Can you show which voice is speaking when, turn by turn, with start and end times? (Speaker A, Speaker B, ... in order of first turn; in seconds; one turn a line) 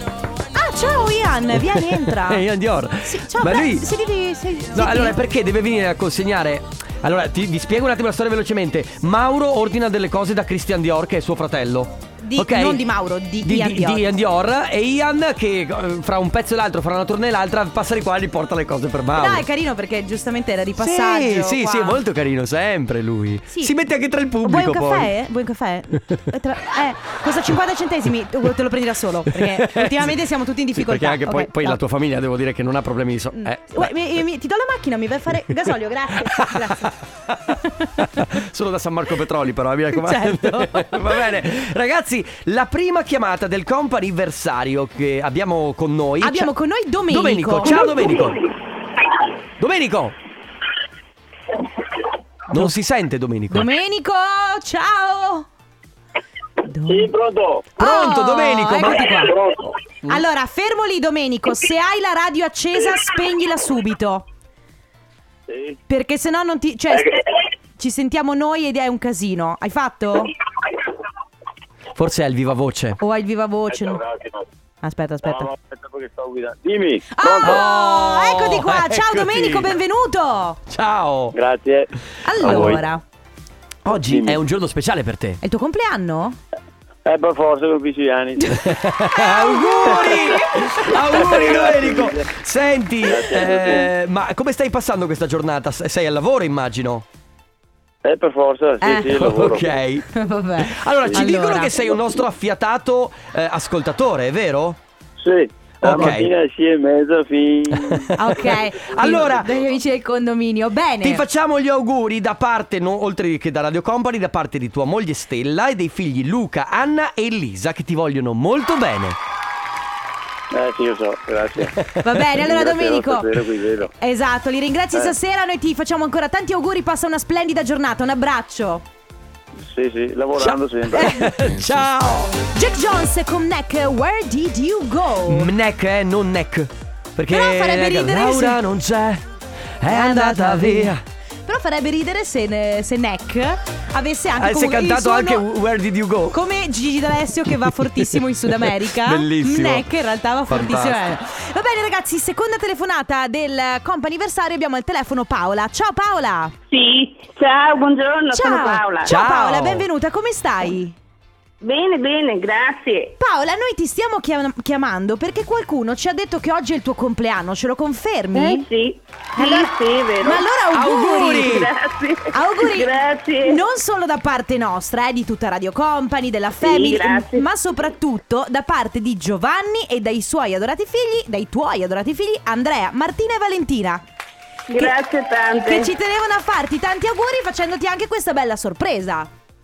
Speaker A: 0.5-2.4
Speaker B: 1.6-3.9
Speaker A: 3.0-5.2
Speaker B: 4.7-12.8
Speaker A: 12.2-14.2
Speaker B: 13.4-19.4
Speaker A: 19.2-22.0
Speaker B: 20.8-25.1
Speaker A: 24.4-31.8
Speaker B: 29.3-30.2
Speaker B: 30.7-33.9
Speaker A: 33.4-37.0
Speaker B: 36.2-46.5
Speaker A: 37.5-38.2
Speaker A: 39.9-41.2
Speaker A: 46.2-48.2
Speaker B: 47.1-48.4
Speaker B: 49.6-50.1
Speaker B: 52.5-53.7
Speaker A: 53.5-55.5
Speaker A: 56.6-57.1
Speaker C: 56.9-57.6
Speaker A: 57.8-59.4
Speaker B: 57.8-59.3
Speaker A: 60.0-64.2
Speaker C: 65.5-65.8
Speaker A: 65.9-67.2
Speaker A: 67.8-70.3
Speaker B: 71.9-73.0
Speaker A: 73.0-74.0
Speaker A: 74.8-75.5
Speaker C: 75.2-77.6
Speaker A: 77.1-80.6
Speaker B: 77.4-79.7
Speaker B: 80.7-81.3
Speaker C: 81.3-81.9
Speaker A: 82.2-83.0
Speaker B: 82.4-82.8
Speaker C: 82.4-82.8
Speaker B: 83.8-85.4
Speaker C: 84.0-84.4
Speaker A: 85.4-86.4
Speaker C: 87.0-88.6
Speaker B: 88.6-97.0
Speaker A: 89.1-90.4
Speaker C: 91.1-92.3
Speaker A: 91.1-91.4
Speaker C: 93.0-93.9
Speaker C: 98.0-99.7
Speaker A: 98.8-99.1
Speaker B: 99.0-100.1
Speaker A: 100.1-102.0
Speaker B: 100.6-104.8
Speaker C: 105.2-108.1
Speaker B: 105.8-106.3
Speaker B: 107.8-109.5
Speaker A: 108.1-111.2
Speaker B: 111.0-119.2
Speaker C: 120.5-121.7
Speaker B: 121.9-122.2
Speaker A: 122.0-128.8
Speaker C: 122.3-123.9
Speaker C: 129.6-131.1
Speaker B: 130.4-132.4
Speaker A: 130.9-131.3
Speaker A: 132.5-135.5
Speaker B: 135.2-139.2
Speaker A: 137.3-138.6
Speaker B: 139.8-141.0
Speaker A: 139.9-145.4
Speaker B: 144.4-146.4
Speaker A: 146.3-156.5
Speaker B: 147.7-149.9
Speaker B: 150.5-151.0
Speaker D: 156.7-159.1
Speaker A: 158.3-160.9
Speaker B: 159.0-159.9
Speaker D: 161.6-163.2
Speaker A: 163.2-168.7
Speaker D: 168.3-170.4
Speaker A: 169.3-171.5
Speaker B: 170.7-171.7
Speaker D: 171.4-173.6
Speaker A: 172.3-184.0
Speaker D: 176.6-177.4
Speaker D: 184.7-185.9
Speaker A: 185.6-189.3